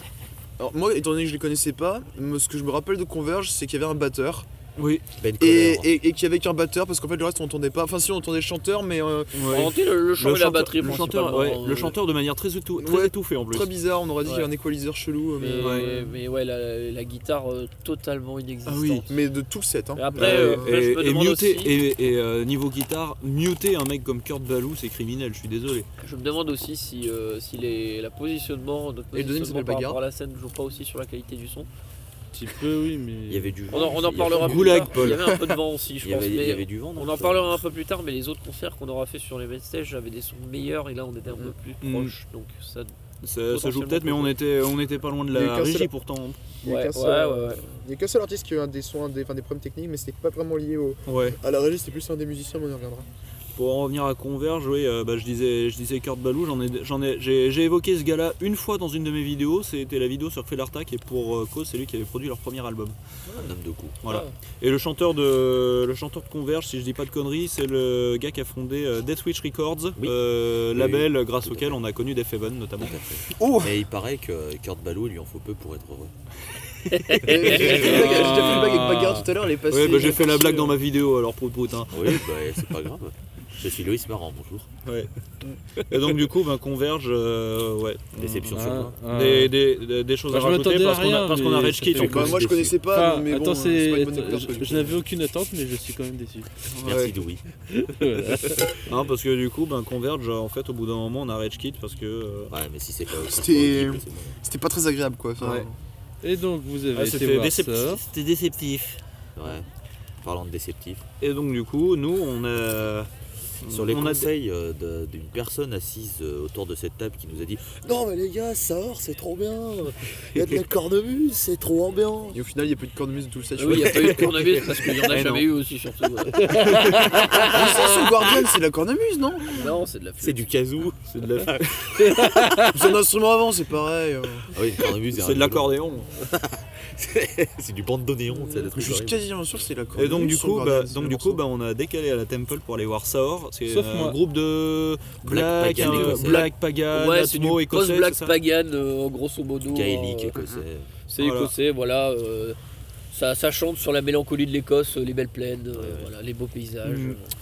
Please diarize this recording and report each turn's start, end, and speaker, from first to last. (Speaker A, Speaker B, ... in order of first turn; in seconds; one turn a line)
Speaker A: 0.6-4.5
Speaker B: 4.8-5.0
Speaker C: 5.2-5.9
Speaker A: 5.4-9.3
Speaker B: 9.3-13.7
Speaker D: 9.5-11.9
Speaker A: 12.8-16.1
Speaker D: 14.2-14.5
Speaker D: 15.4-19.1
Speaker B: 15.6-15.9
Speaker B: 18.6-19.1
Speaker A: 19.1-20.7
Speaker D: 19.9-21.8
Speaker B: 20.1-25.9
Speaker D: 26.0-31.7
Speaker A: 29.1-30.0
Speaker E: 32.3-33.6
Speaker C: 33.3-34.8
Speaker D: 33.7-42.9
Speaker B: 34.3-35.4
Speaker C: 36.0-37.6
Speaker B: 41.8-42.1
Speaker B: 43.2-46.4
Speaker D: 43.5-44.4
Speaker A: 45.3-45.9
Speaker A: 46.6-53.1
Speaker D: 46.6-47.6
Speaker B: 51.0-51.4
Speaker B: 53.5-63.0
Speaker C: 63.3-64.0
Speaker D: 64.0-64.3
Speaker B: 64.0-73.0
Speaker C: 70.7-71.8
Speaker C: 72.8-76.1
Speaker A: 73.3-73.7
Speaker D: 76.9-77.5
Speaker B: 77.1-78.8
Speaker A: 77.2-80.8
Speaker E: 77.6-79.3
Speaker B: 79.7-82.2
Speaker C: 81.9-84.7
Speaker B: 84.8-85.1
Speaker B: 85.8-88.5
Speaker C: 88.2-89.0
Speaker E: 88.5-89.5
Speaker B: 89.1-92.4
Speaker E: 90.3-96.5
Speaker A: 91.9-95.0
Speaker C: 92.0-92.8
Speaker B: 96.7-97.2
Speaker C: 96.8-97.4
Speaker E: 97.7-98.8
Speaker B: 98.8-102.5
Speaker C: 102.5-104.4
Speaker A: 103.2-105.8
Speaker B: 105.4-105.7
Speaker E: 106.2-108.0
Speaker B: 106.9-109.0
Speaker C: 109.3-109.7
Speaker C: 110.2-111.0
Speaker B: 111.2-113.1
Speaker B: 113.6-114.3
Speaker C: 113.7-122.4
Speaker A: 122.3-124.4
Speaker D: 123.5-127.6
Speaker B: 123.7-125.5
Speaker E: 126.4-127.2
Speaker A: 127.2-129.7
Speaker D: 129.5-130.5
Speaker C: 130.2-132.2
Speaker B: 131.1-132.0
Speaker E: 132.1-132.7
Speaker A: 132.7-134.5
Speaker C: 134.5-139.2
Speaker B: 135.1-136.1
Speaker A: 138.5-141.4
Speaker B: 139.9-148.3
Speaker E: 143.7-144.2
Speaker C: 145.2-146.5
Speaker D: 145.8-150.4
Speaker C: 149.6-150.9
Speaker D: 151.1-152.6
Speaker B: 151.2-151.5
Speaker D: 153.1-157.3
Speaker C: 155.7-156.1